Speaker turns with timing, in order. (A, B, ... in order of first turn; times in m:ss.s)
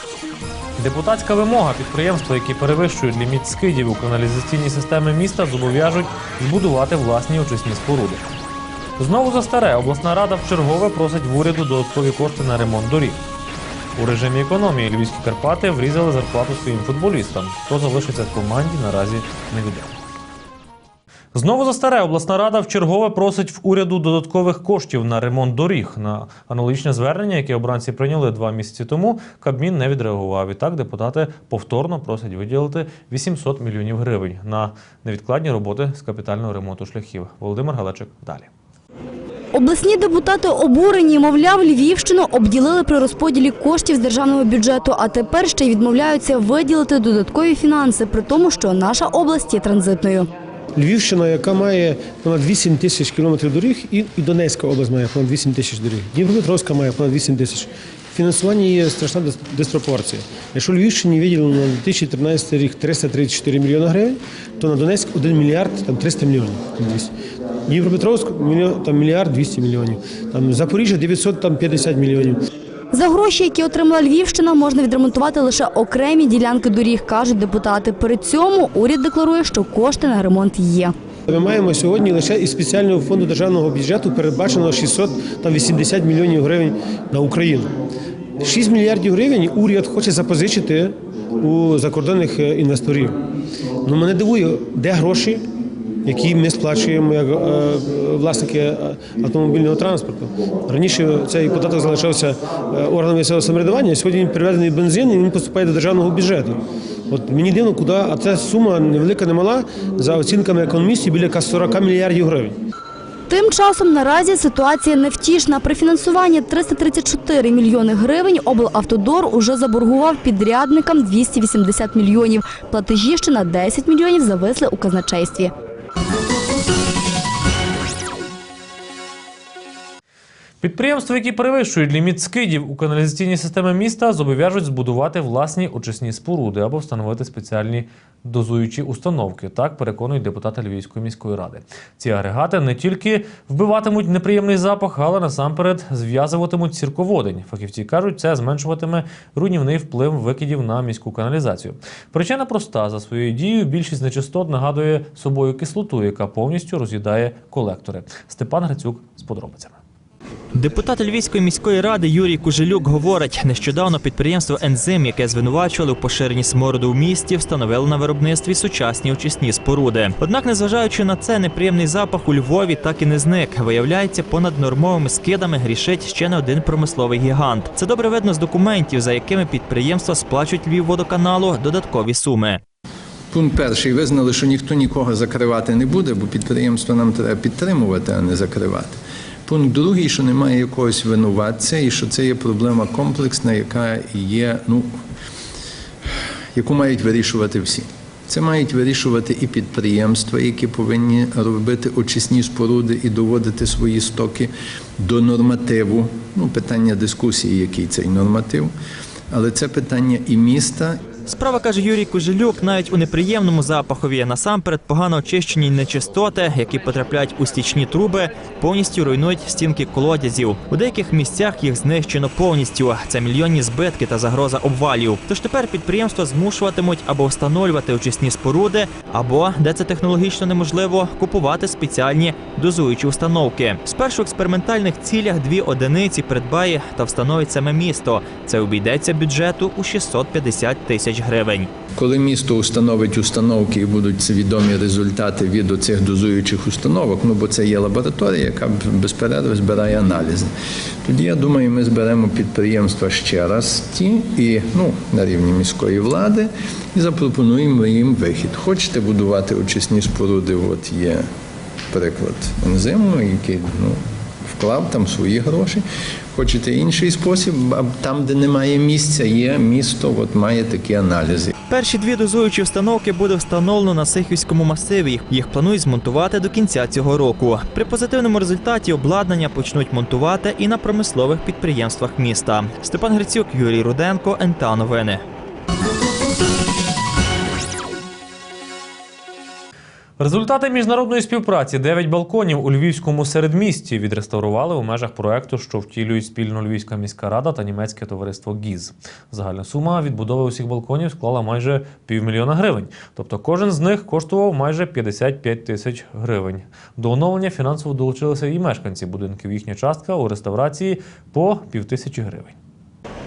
0:00.8-0:08.2 A
0:09.0-0:13.2 A
0:14.0-0:19.9 A
0:21.3-0:38.5 A
0:39.5-0:50.3 B
0:50.8-1:07.1 C
1:07.7-1:12.4 C
1:12.9-1:20.9 B
1:21.3-1:27.7 C
1:28.4-1:33.2 C
1:33.8-1:35.4 C
1:36.0-1:52.6 C
1:53.3-2:05.5 B
2:10.6-2:39.8 A
2:40.6-3:02.6 D
3:03.3-3:08.9 E
3:09.5-3:14.9 E
3:16.5-3:28.7 E
3:29.3-3:31.0 E
3:31.3-4:01.7 D
4:02.0-4:10.5 E
4:11.0-4:21.2 E
4:21.9-4:25.8 E
4:26.3-4:31.5 E
4:31.7-4:45.2 D
4:50.2-5:12.6 A